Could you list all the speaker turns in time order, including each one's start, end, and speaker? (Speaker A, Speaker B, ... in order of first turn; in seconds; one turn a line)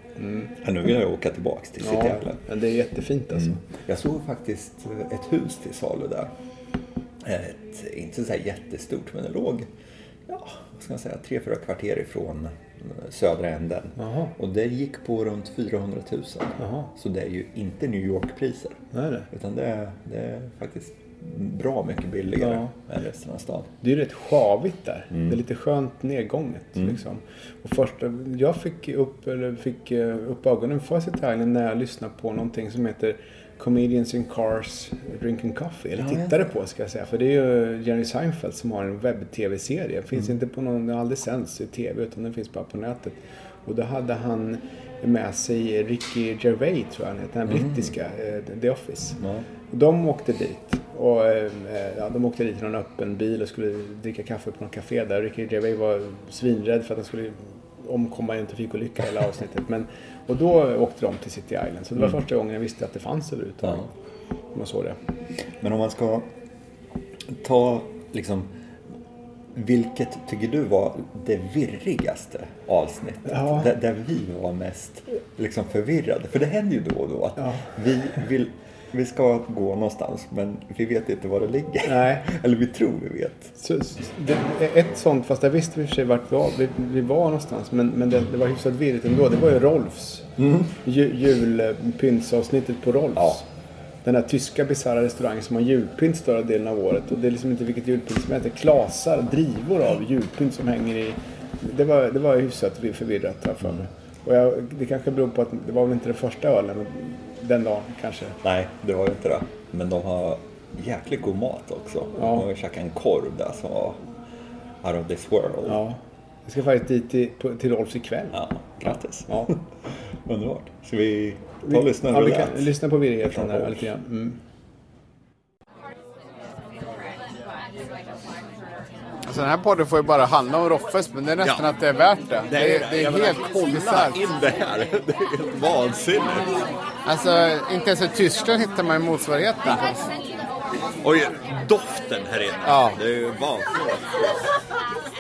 Speaker A: 0.2-0.5
Speaker B: 0.5-2.4
Speaker A: 1.8-3.6
Speaker B: 3.3-6.3
Speaker B: 7.2-9.7
Speaker B: 10.3-23.7
Speaker A: 14.0-14.3
Speaker A: 16.6-16.9
Speaker A: 18.9-19.3
Speaker A: 22.4-22.7
Speaker A: 23.8-63.9
Speaker B: 36.0-36.4
Speaker B: 47.5-47.9
Speaker B: 49.2-49.5
Speaker A: 64.5-65.0
Speaker B: 65.6-66.3
Speaker B: 67.3-68.5
Speaker B: 69.5-83.5
Speaker A: 73.3-73.7
Speaker A: 77.4-77.7
Speaker A: 81.8-82.3
Speaker A: 83.6-90.3
Speaker B: 90.4-90.7
Speaker A: 90.8-93.5
Speaker A: 94.0-108.4
Speaker B: 108.4-114.0
Speaker A: 112.2-112.5
Speaker B: 114.8-115.8
Speaker A: 115.6-119.5
Speaker B: 118.3-123.9
Speaker A: 121.6-124.4
Speaker A: 129.3-134.2
Speaker B: 132.5-136.6
Speaker A: 137.1-140.1
Speaker B: 141.0-144.5
Speaker A: 142.6-143.0